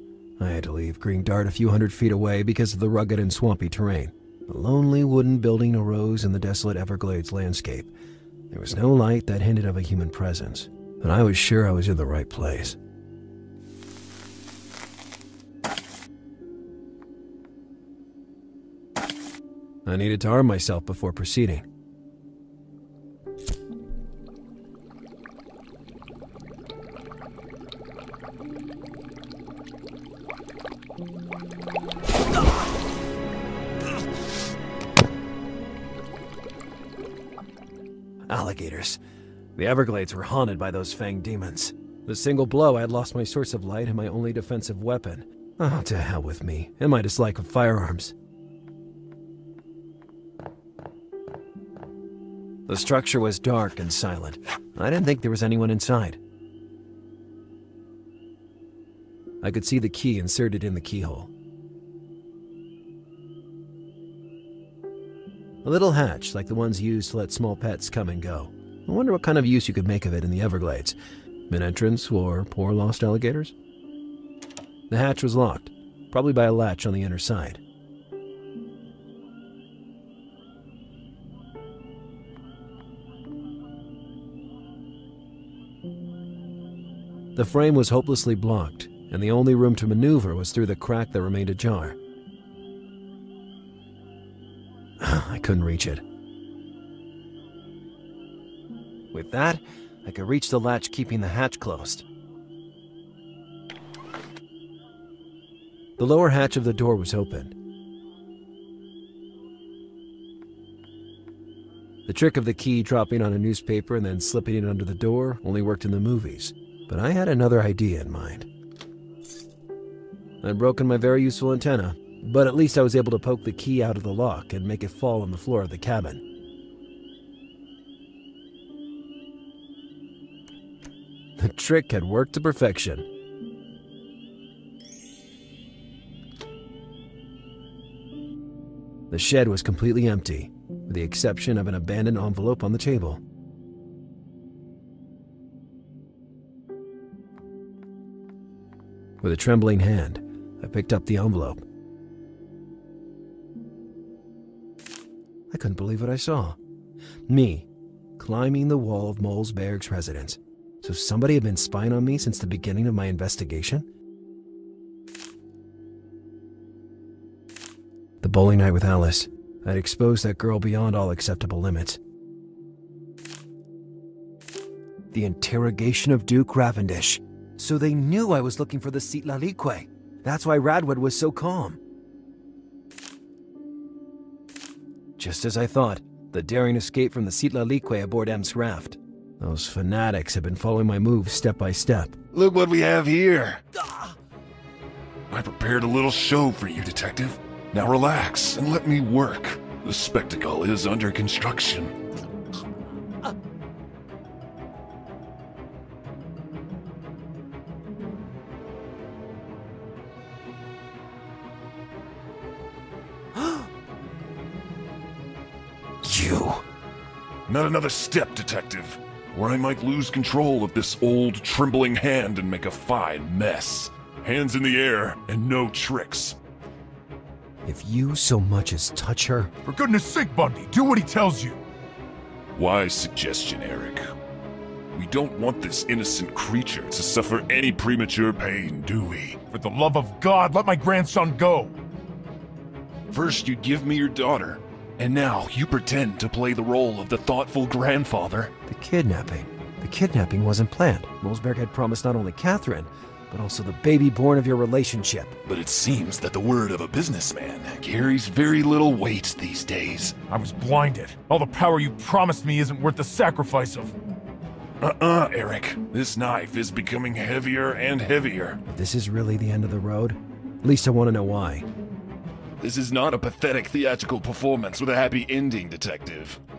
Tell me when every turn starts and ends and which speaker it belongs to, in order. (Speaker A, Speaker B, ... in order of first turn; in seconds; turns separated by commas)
Speaker A: 0.4-7.9, Speaker A: 8.5-12.8, Speaker A: 19.9-21.6, Speaker A: 38.3-39.0, Speaker A: 39.5-48.1, Speaker A: 52.7-56.2, Speaker A: 59.4-61.3, Speaker A: 65.6-71.0, Speaker A: 71.5-73.5, Speaker A: 74.9-77.6, Speaker A: 87.3-92.0, Speaker A: 95.0-96.0, Speaker A: 99.1-102.0, Speaker A: 106.0-107.5, Speaker A: 112.0-118.5, Speaker A: 120.4-126.2, Speaker A: 131.4-133.1, Speaker A: 139.1-143.2, Speaker A: 149.2-151.6, Speaker A: 155.5-156.6, Speaker A: 157.3-163.9, Speaker A: 168.2-172.0, Speaker A: 175.1-181.8, Speaker A: 185.2-192.2, Speaker B: 192.3-193.6, Speaker B: 195.3-201.9, Speaker A: 216.0-216.6, Speaker B: 217.5-226.4, Speaker A: 227.6-229.5, Speaker C: 229.7-231.6, Speaker B: 232.6-234.0, Speaker B: 234.9-239.4, Speaker C: 239.5-241.7, Speaker B: 243.1-248.5, Speaker A: 248.7-255.3, Speaker B: 255.4-260.2, Speaker C: 260.3-263.9, Speaker B: 264.8-268.6, Speaker A: 268.6-271.7, Speaker B: 272.6-276.4